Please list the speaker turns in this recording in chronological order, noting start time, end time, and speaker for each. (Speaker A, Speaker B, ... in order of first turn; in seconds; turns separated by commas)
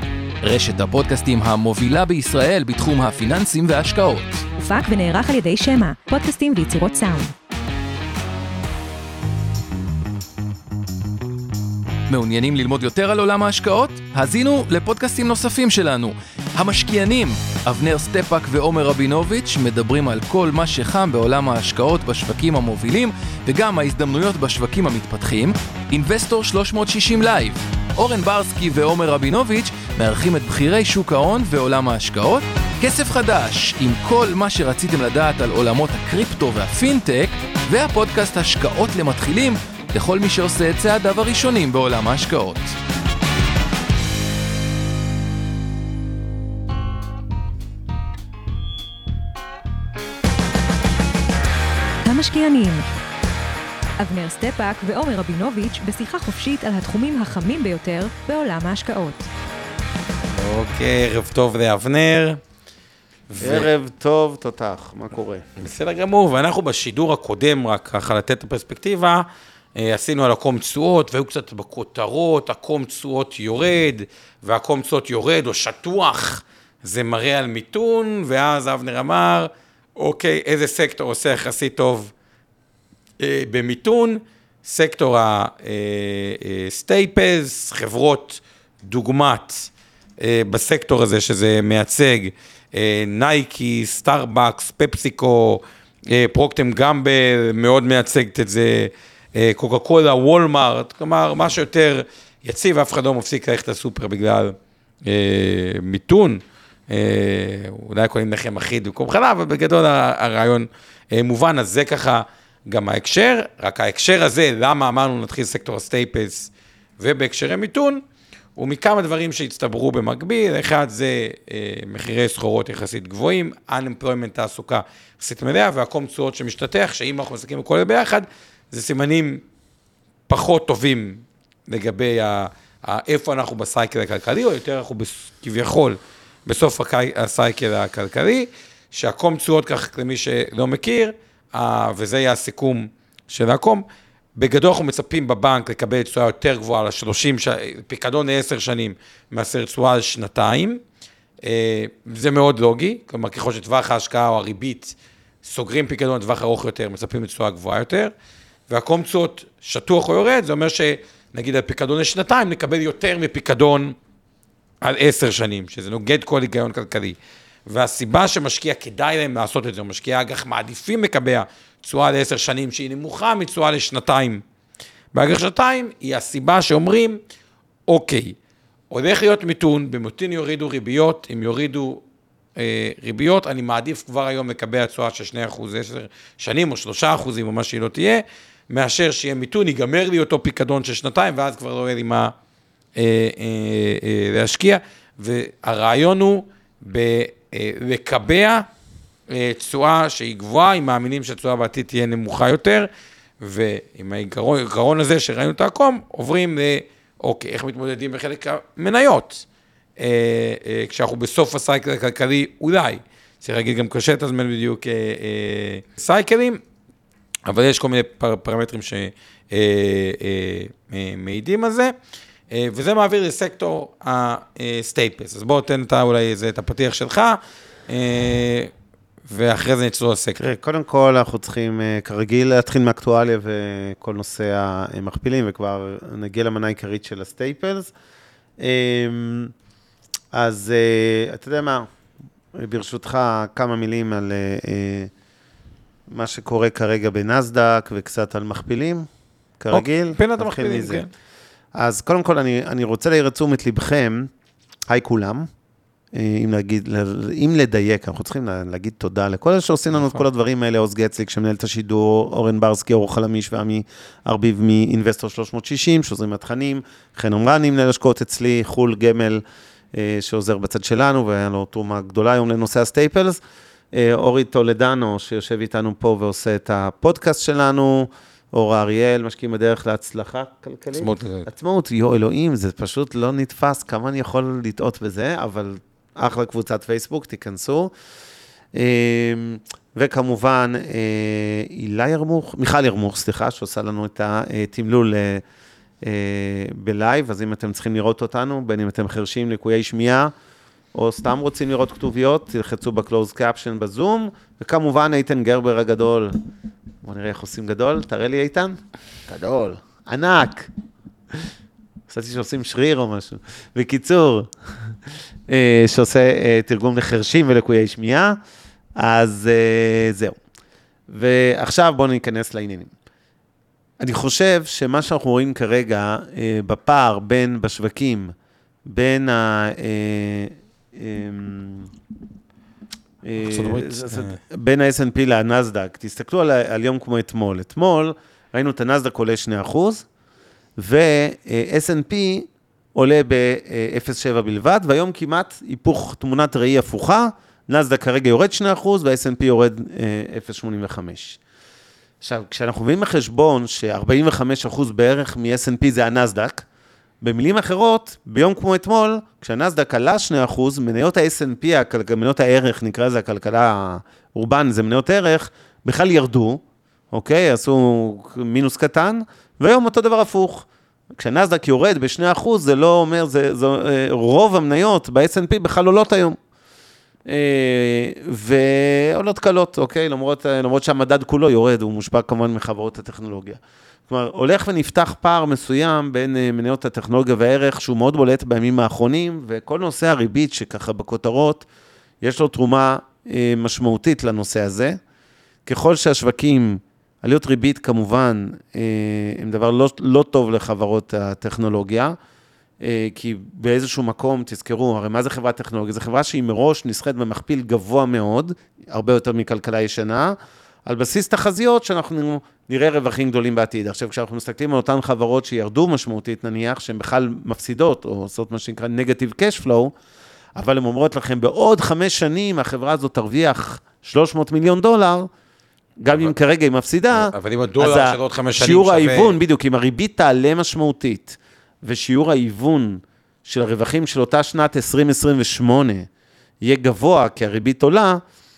Speaker A: 0.4-4.5, Speaker B: 4.6-7.3, Speaker A: 12.1-42.7, Speaker B: 52.0-52.8, Speaker B: 54.0-59.3, Speaker C: 60.3-62.4, Speaker C: 63.3-63.7, Speaker D: 63.4-65.4, Speaker C: 65.6-82.1, Speaker C: 83.2-118.0, Speaker C: 118.5-129.4, Speaker C: 130.3-143.8, Speaker C: 144.4-150.8, Speaker C: 151.4-158.1, Speaker C: 158.7-163.9, Speaker C: 164.8-174.4, Speaker C: 175.1-177.2, Speaker C: 177.9-178.3, Speaker C: 178.9-182.0, Speaker C: 182.6-192.3, Speaker C: 192.9-198.7, Speaker C: 199.3-202.9, Speaker C: 203.4-209.4, Speaker C: 210.0-216.6, Speaker C: 217.5-221.9, Speaker C: 222.5-228.7, Speaker C: 229.3-230.4, Speaker D: 230.4-237.9, Speaker D: 238.6-239.5, Speaker D: 240.3-241.9, Speaker D: 242.5-245.1, Speaker D: 246.1-249.1, Speaker D: 249.6-251.0, Speaker C: 249.7-251.1, Speaker D: 251.7-254.3, Speaker D: 254.9-255.5, Speaker D: 256.1-273.4, Speaker C: 259.9-260.2, Speaker D: 273.9-287.9, Speaker C: 280.9-281.5, Speaker D: 288.7-295.4, Speaker D: 296.0-300.3, Speaker D: 300.9-306.3, Speaker D: 307.0-310.7, Speaker D: 312.1-314.9, Speaker D: 315.5-318.4, Speaker D: 319.0-320.4, Speaker D: 321.1-322.9, Speaker D: 324.0-328.3, Speaker D: 328.9-331.9, Speaker D: 333.2-340.1, Speaker C: 333.4-334.4, Speaker D: 340.8-351.4, Speaker D: 352.2-356.6, Speaker D: 357.2-376.4, Speaker D: 377.2-391.6, Speaker D: 392.2-395.0, Speaker D: 395.6-402.1, Speaker D: 402.8-419.9, Speaker D: 420.6-425.3, Speaker D: 426.0-436.1, Speaker C: 427.1-429.4, Speaker D: 436.6-438.2